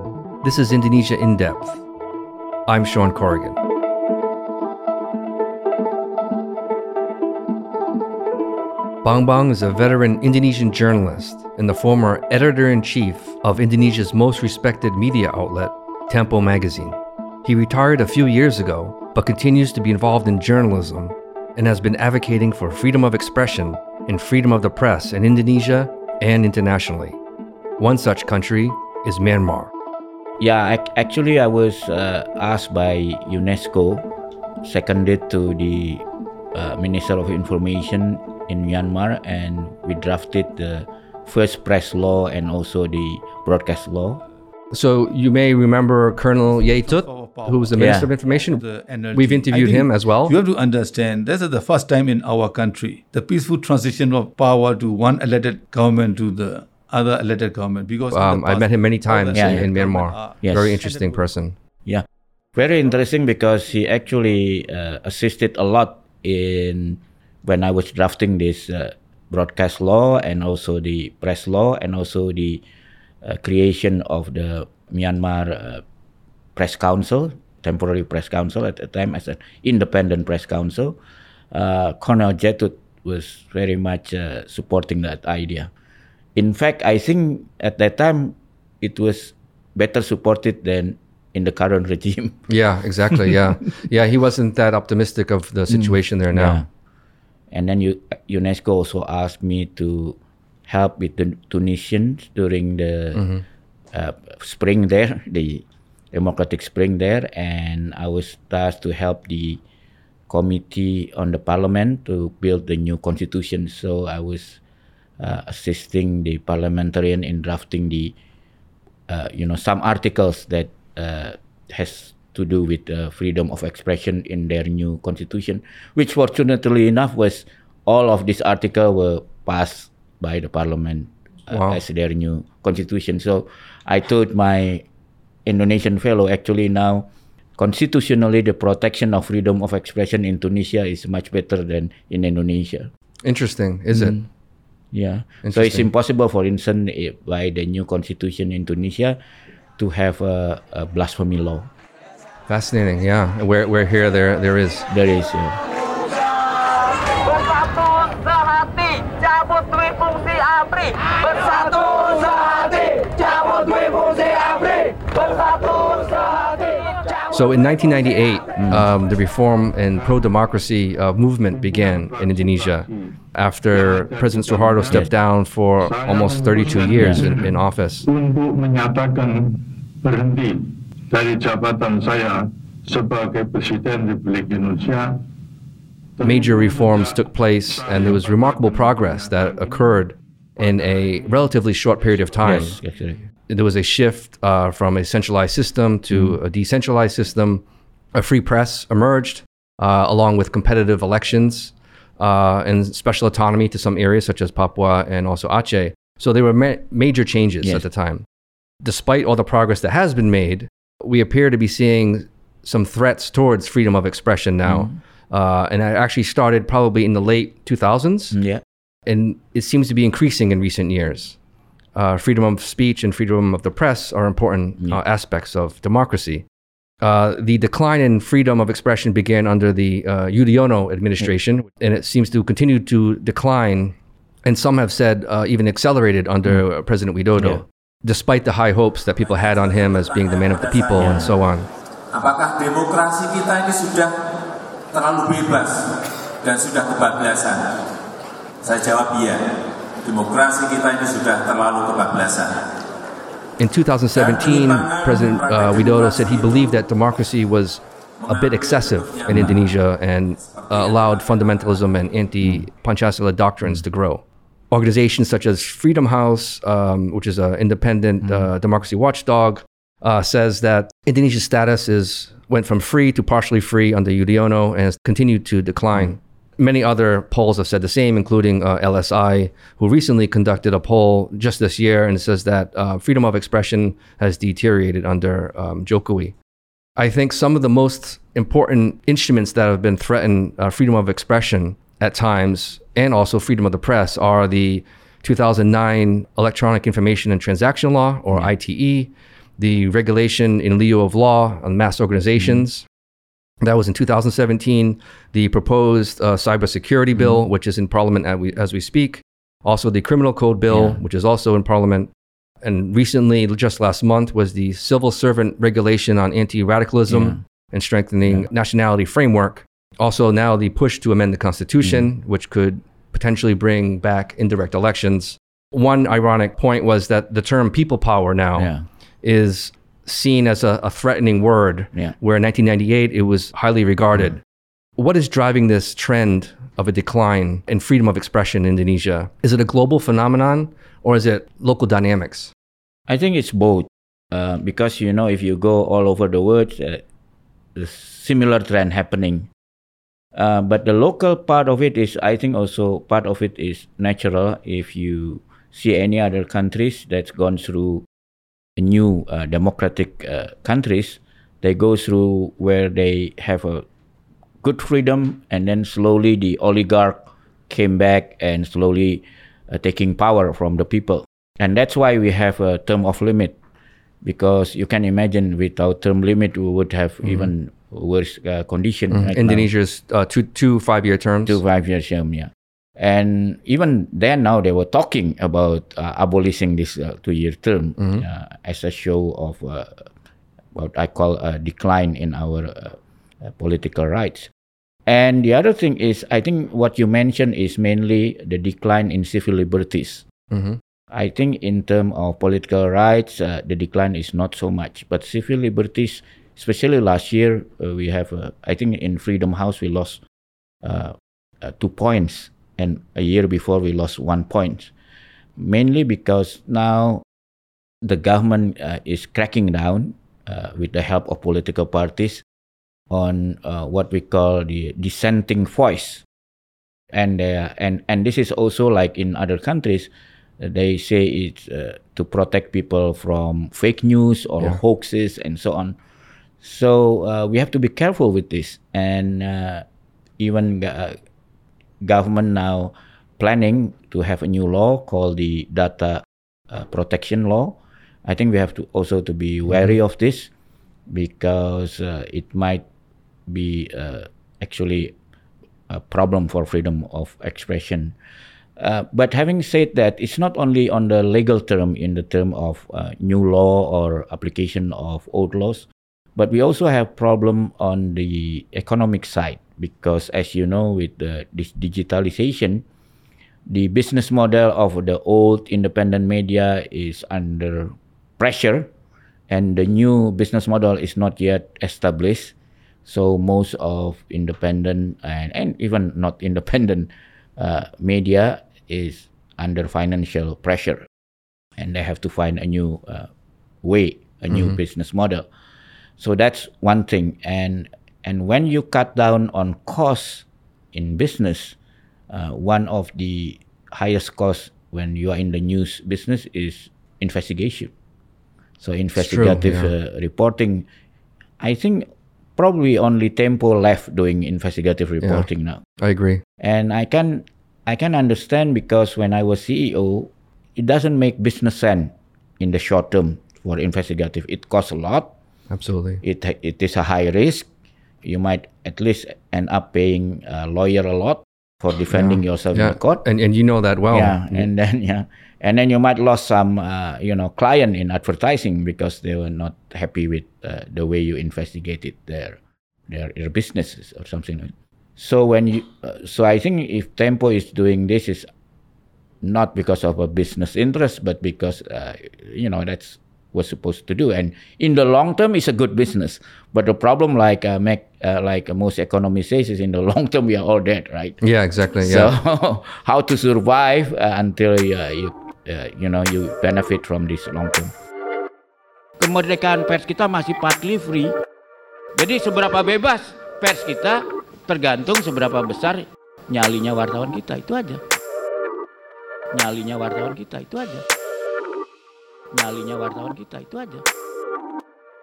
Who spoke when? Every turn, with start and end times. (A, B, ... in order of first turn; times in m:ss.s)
0:00.4-0:01.8 A
0:02.7-0:03.6 A
0:09.0-0:27.2 A
0:27.8-0:29.7 A
0:30.4-0:34.1 B
0:34.6-0:44.2 B
0:44.7-0:50.4 A
0:46.6-1:01.3 C
0:47.8-0:48.1 B
0:58.1-1:01.6 A
0:59.3-0:59.7 B
1:00.4-1:00.8 B
1:02.6-1:12.6 B
1:13.2-1:15.8 B
1:16.6-1:21.0 B
1:21.5-1:25.7 B
1:26.4-1:32.4 B
1:32.5-1:36.6 A
1:35.7-1:36.7 B
1:37.5-1:43.2 B
1:43.2-1:43.4 A
1:43.9-1:49.6 B
1:50.3-1:54.6 B
1:55.2-1:58.2 B
1:59.1-2:14.9 B
2:11.5-2:11.8 A
2:15.5-2:22.9 B
2:23.2-2:24.2 A
2:23.9-2:24.3 B
2:24.9-2:29.2 B
2:25.4-2:25.9 A
2:29.8-2:31.7 B
2:32.5-2:34.9 A
2:34.9-2:35.6 B
2:47.3-2:58.1 A
2:48.6-2:48.9 B
2:51.5-2:53.2 D
2:53.7-2:55.1 D
2:55.8-3:05.2 D
2:57.0-2:57.3 B
3:06.2-3:09.9 D
3:06.2-3:12.8 A
3:10.6-3:11.2 D
3:12.4-3:13.2 B
3:13.5-3:17.6 A
3:16.1-3:16.4 B
3:18.2-3:28.2 A
3:28.8-3:38.4 A
3:34.6-3:35.0 B
3:38.3-3:38.6 B
3:39.1-3:41.4 A
3:42.0-3:46.4 A
3:47.0-3:53.9 A
3:54.4-4:01.7 A
3:57.4-3:57.6 B
4:00.3-4:01.2 E
4:01.0-4:01.3 B
4:02.1-4:04.1 E
4:04.9-4:07.9 E
4:08.6-4:09.4 E
4:10.0-4:12.7 E
4:13.6-4:46.4 A
4:14.2-4:16.8 E
4:18.2-4:19.5 E
4:19.3-4:19.6 B
4:20.8-4:21.4 E
4:28.2-4:28.5 B
4:47.0-5:02.8 A
5:03.6-5:12.1 A
5:07.1-5:07.4 B
5:10.7-5:11.0 B
5:12.6-5:28.7 A
5:17.1-5:17.4 B
5:28.6-5:28.8 B
5:29.2-5:34.4 A
5:35.0-5:42.5 A
5:43.1-5:47.0 B
5:47.8-5:49.5 B
5:50.4-5:58.0 B
5:58.8-6:03.8 B
6:04.6-6:13.6 B
6:14.2-6:19.7 B
6:19.1-6:21.6 A
6:21.5-6:30.1 B
6:28.0-6:28.2 A
6:30.8-6:34.5 B
6:35.1-6:40.2 B
6:40.5-6:40.8 A
6:41.1-6:50.2 B
6:50.8-6:54.9 B
6:55.6-6:57.2 B
6:58.0-7:02.4 B
7:03.1-7:06.2 B
7:07.1-7:16.0 B
7:16.6-7:19.8 B
7:20.4-7:21.2 B
7:22.0-7:30.5 B
7:31.1-7:32.9 B
7:33.5-7:35.2 B
7:35.9-7:38.2 B
7:38.8-7:52.8 B
7:53.7-7:58.9 B
7:59.5-8:02.5 B
8:03.0-8:11.1 B
8:11.8-8:13.3 B
8:13.8-8:15.5 B
8:14.5-8:14.8 A
8:16.2-8:21.8 B
8:22.3-8:27.9 B
8:28.8-8:30.9 B
8:29.2-8:29.9 A
8:31.6-8:32.1 B
8:32.6-8:35.8 B
8:35.2-8:35.5 A
8:36.0-8:36.4 A
8:36.6-8:45.3 B
8:45.7-8:46.2 A
8:46.2-8:47.7 B
8:48.2-8:53.2 B
8:52.1-8:54.7 A
8:54.1-9:08.5 B
9:09.4-9:21.4 B
9:21.4-9:22.3 A
9:22.0-9:27.9 B
9:29.2-9:31.4 B
9:32.2-9:38.0 B
9:39.5-9:41.1 B
9:42.5-9:44.1 B